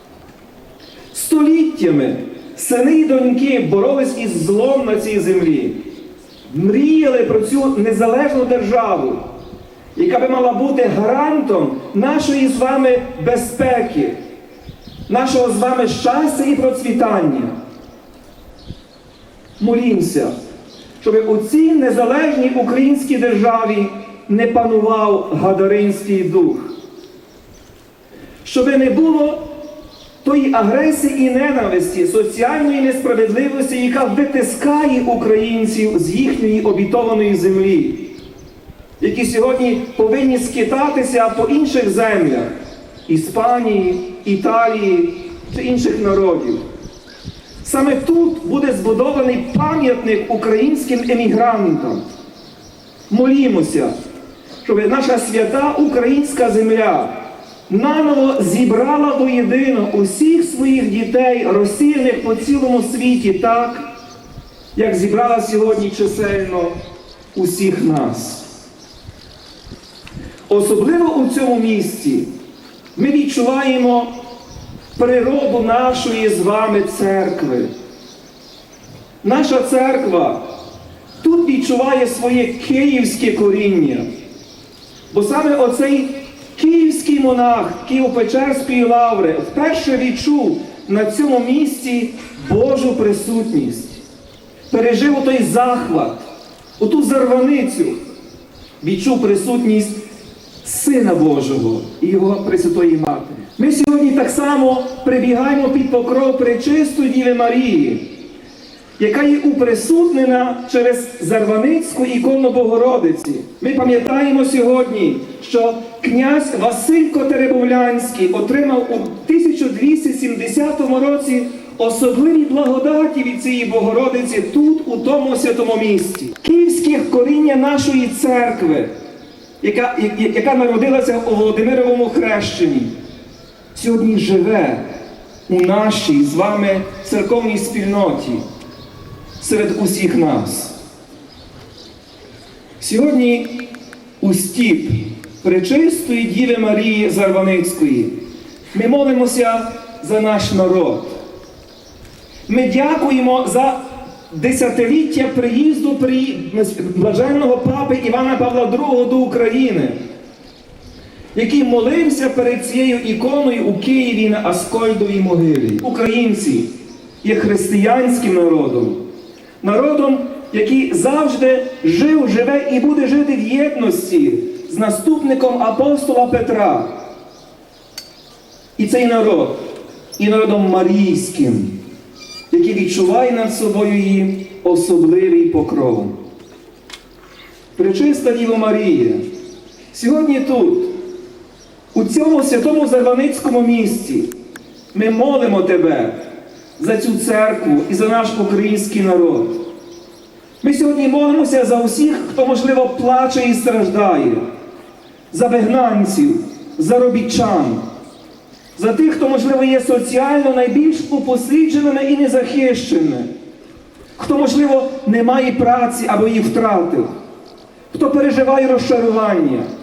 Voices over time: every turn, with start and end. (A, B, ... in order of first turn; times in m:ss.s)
0:01.1-0:05.8 A
0:06.5-0:09.2 A
0:09.9-0:14.2 A
0:15.1-0:17.5 A
0:19.6-0:20.3 A
0:21.0-0:26.7 A
0:28.4-0:29.4 A
0:30.2-0:38.1 A
0:39.0-0:42.5 A
0:43.1-0:46.6 A
0:47.6-0:52.0 A
0:53.1-0:53.9 A
0:54.6-1:03.8 A
1:04.8-1:06.8 A
1:07.3-1:08.5 A
1:10.5-1:12.3 A
1:12.9-1:14.1 A
1:15.0-1:17.7 A
1:19.2-1:20.5 A
1:21.2-1:24.0 A
1:25.1-1:34.0 A
1:34.7-1:36.3 A
1:36.8-1:38.0 A
1:38.8-1:40.0 A
1:40.6-1:48.1 A
1:49.0-2:08.9 A
2:09.6-2:12.9 A
2:13.7-2:14.9 A
2:15.5-2:18.4 A
2:19.4-2:20.8 A
2:22.8-2:28.2 A
2:28.7-2:31.2 A
2:32.5-2:40.0 A
2:41.3-2:49.0 A
2:49.6-2:57.0 A
2:58.8-2:59.6 A
3:00.2-3:01.8 A
3:02.5-3:06.2 A
3:07.8-3:09.2 A
3:09.9-3:11.0 A
3:11.9-3:14.3 A
3:14.9-3:16.2 A
3:16.8-3:19.6 A
3:20.6-3:24.4 A
3:25.3-3:27.8 A
3:28.8-3:33.3 A
3:34.2-3:37.1 A
3:37.9-3:39.7 A